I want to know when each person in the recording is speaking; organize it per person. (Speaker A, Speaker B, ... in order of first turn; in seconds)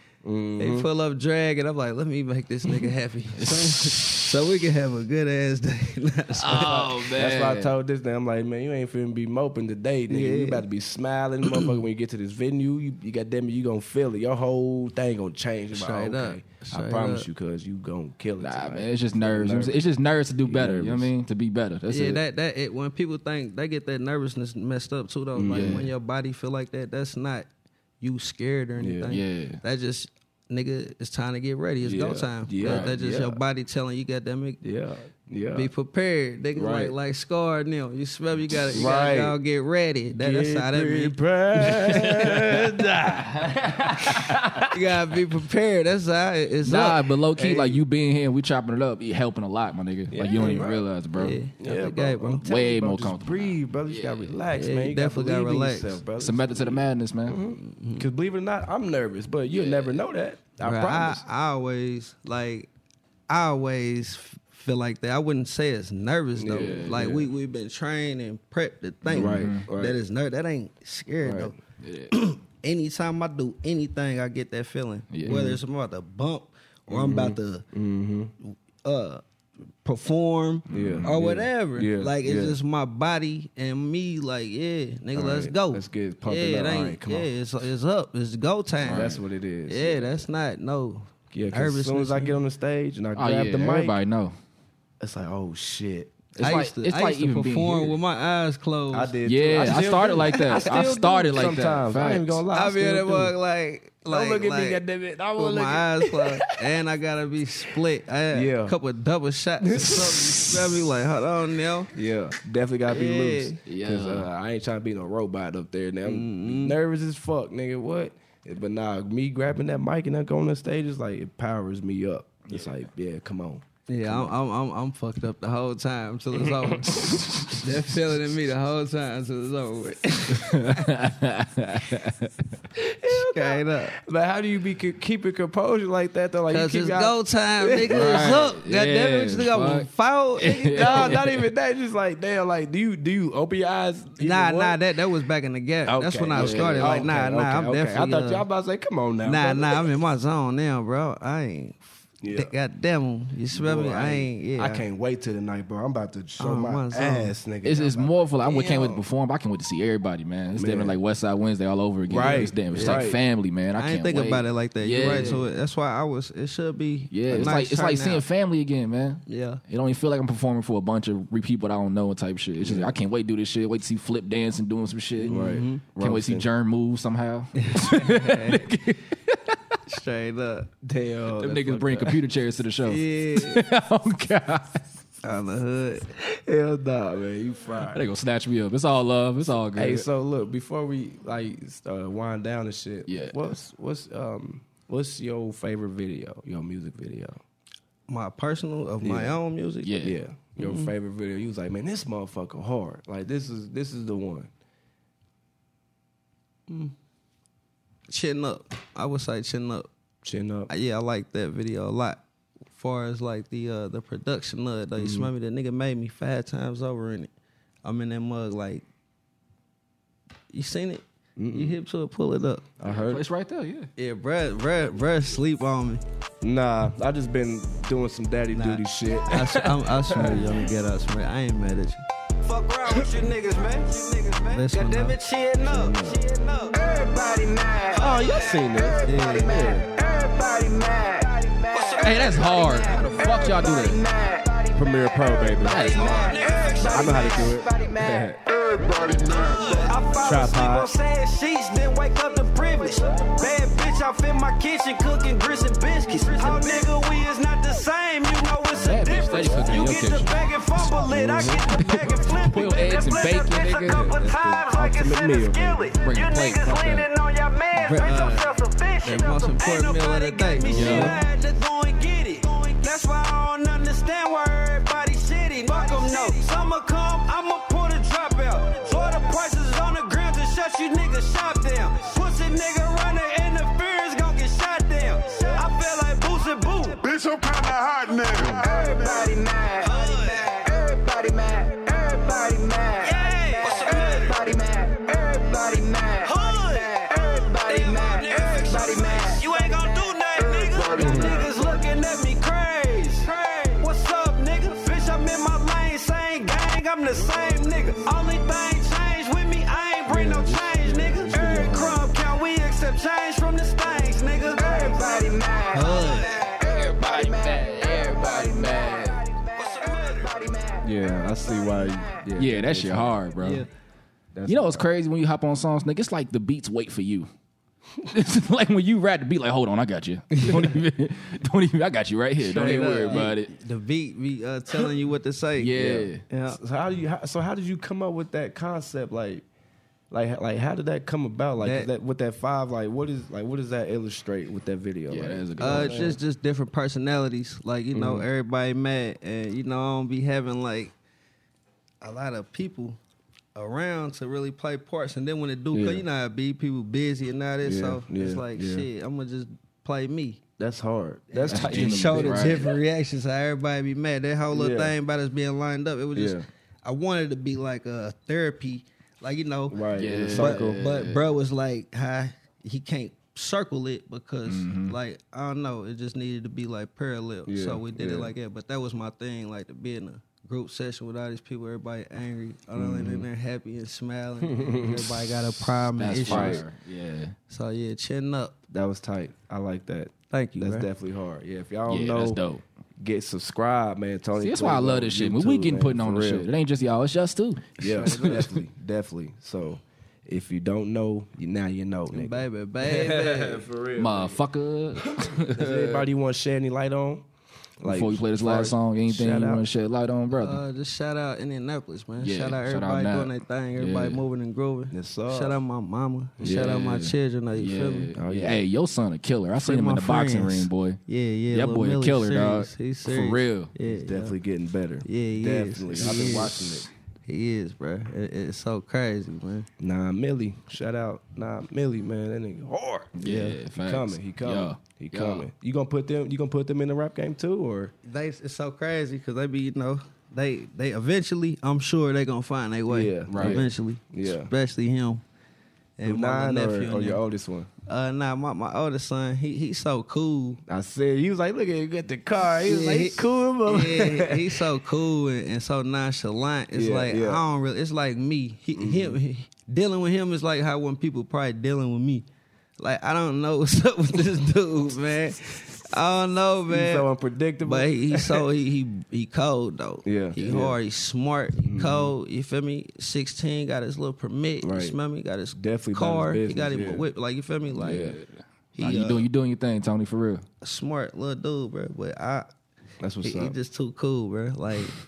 Speaker A: 0.2-0.9, 6.5-19.8, 20.4-21.1, 25.4-25.9, 28.8-29.1, 31.8-33.4, 34.6-35.7, 36.6-36.9, 38.7-39.4, 40.2-44.6, 47.4-47.8, 50.1-50.9, 51.6-61.2, 66.4-67.3, 69.1-70.0, 71.2-71.5, 75.2-75.6, 76.9-78.3, 80.7-82.6, 85.1-87.3, 88.8-90.2, 91.3-94.0, 95.0-96.1, 98.9-103.3, 104.0-106.4, 108.3-108.8, 109.6-110.6, 111.9-124.3, 132.8-138.4, 140.8-144.8, 145.9-150.0, 152.2-152.5, 153.5-159.0, 160.6-161.0, 162.1-163.2, 165.0-165.4, 172.6-172.9, 175.2-176.5, 180.8-182.2, 186.2-188.0, 189.8-197.4, 199.0-199.4, 200.0-204.5, 210.2-210.7, 215.0-215.3, 221.4-221.8, 222.8-223.2, 226.4-230.4, 235.6-236.2, 237.9-239.9, 244.7-248.4, 250.2-250.9, 261.0-261.7, 263.9-265.9, 301.0-301.4, 310.1-312.1, 320.8-323.2, 324.4-324.9, 332.4-333.3, 335.8-339.4, 340.1-346.2, 347.9-348.2, 355.7-356.0, 357.6-358.9, 360.6-362.6, 364.5-364.9, 366.1-366.4, 369.7-370.8, 377.5-378.3, 382.8-383.3, 384.5-385.1, 386.3-386.6, 388.7-392.4, 393.0-396.5, 397.8-404.4, 405.5-407.3, 407.8-409.7, 414.9-415.6, 416.4-416.8, 418.1-418.6, 423.9-426.9, 429.8-433.1, 433.8-437.9, 442.9-444.5, 446.1-447.7, 450.7-454.6, 456.7-457.4, 458.8-459.2, 466.7-468.4, 470.0-470.8, 471.6-472.1, 474.6-475.0, 475.6-477.1, 477.8-478.2, 483.0-483.6
Speaker B: 0.6-7.0, 10.1-10.7, 15.7-17.3, 21.9-27.5, 28.0-34.6, 35.5-42.4, 44.7-47.1, 51.1-52.4, 54.5-56.0, 57.6-58.1, 60.6-62.7, 63.3-71.6, 72.1-77.7, 78.5-79.2, 79.8-89.2, 89.7-92.4, 96.4-99.2, 102.5-104.8, 105.4-111.9, 112.9-113.6, 116.0-116.8, 123.9-130.9, 133.1-134.0, 136.5-141.3, 144.2-148.4, 149.2-154.8, 156.4-157.3, 162.2-163.1, 163.8-168.2, 169.3-169.6, 175.3-175.8, 177.6-178.6, 179.9-180.7, 182.9-183.7, 185.2-186.1, 198.1-199.9, 200.6-200.9, 206.7-206.9, 208.1-209.9, 210.7-212.2, 212.8-217.3, 217.8-218.8, 220.5-222.7, 224.0-226.0, 228.5-232.0, 234.5-235.2, 239.1-239.8, 246.2-246.8, 267.8-268.5, 269.0-271.2, 289.9-290.4, 293.5-294.3, 297.8-299.5, 301.0-301.2, 315.7-316.5, 323.4-323.6, 332.6-335.8, 336.3-336.6, 341.6-341.9, 345.6-350.9, 352.0-353.0, 353.6-360.4, 361.3-369.8, 370.3-386.7, 387.5-388.6, 390.3-390.9, 398.1-398.4, 402.1-403.7, 410.3-418.1, 419.6-424.4, 425.1-429.7, 433.2-433.6, 438.1-445.2, 446.0-447.2, 447.9-450.6, 452.5-462.3, 462.8-467.1, 467.6-478.2, 478.8-479.3, 480.6-482.5, 483.2-485.0
Speaker C: 3.4-4.0, 6.3-7.7, 18.4-22.2, 25.5-25.9, 29.1-29.6, 32.6-32.9, 43.5-44.4, 46.6-51.4, 52.4-54.4, 56.2-57.4, 59.5-60.0, 66.5-67.0, 69.1-69.6, 71.8-72.2, 75.1-75.5, 80.7-81.1, 88.8-89.2, 93.2-94.3, 96.3-98.0, 99.2-102.4, 113.7-114.3, 122.5-122.9, 130.3-132.4, 137.9-141.4, 146.3-147.1, 157.6-165.4, 167.1-179.8, 181.4-184.8, 187.9-190.1, 193.1-193.6, 199.8-200.2, 222.8-223.9, 242.0-244.1, 245.6-246.3, 258.7-261.0, 261.7-264.2, 266.0-267.1, 270.7-271.2, 316.6-319.3, 322.4-323.6, 324.5-327.3, 328.1-333.5, 335.6-336.2, 345.1-346.1, 361.5-362.8, 369.9-371.2, 374.4-375.0, 385.9-387.3, 391.9-392.6, 394.4-398.5, 404.0-406.1, 407.9-410.6, 412.2-414.2, 416.4-423.7, 433.2-435.5, 443.3-443.6, 477.7-480.4
Speaker D: 232.4-248.3, 249.3-287.1, 288.5-320.9, 321.8-322.2
Speaker E: 248.5-249.9, 287.0-289.4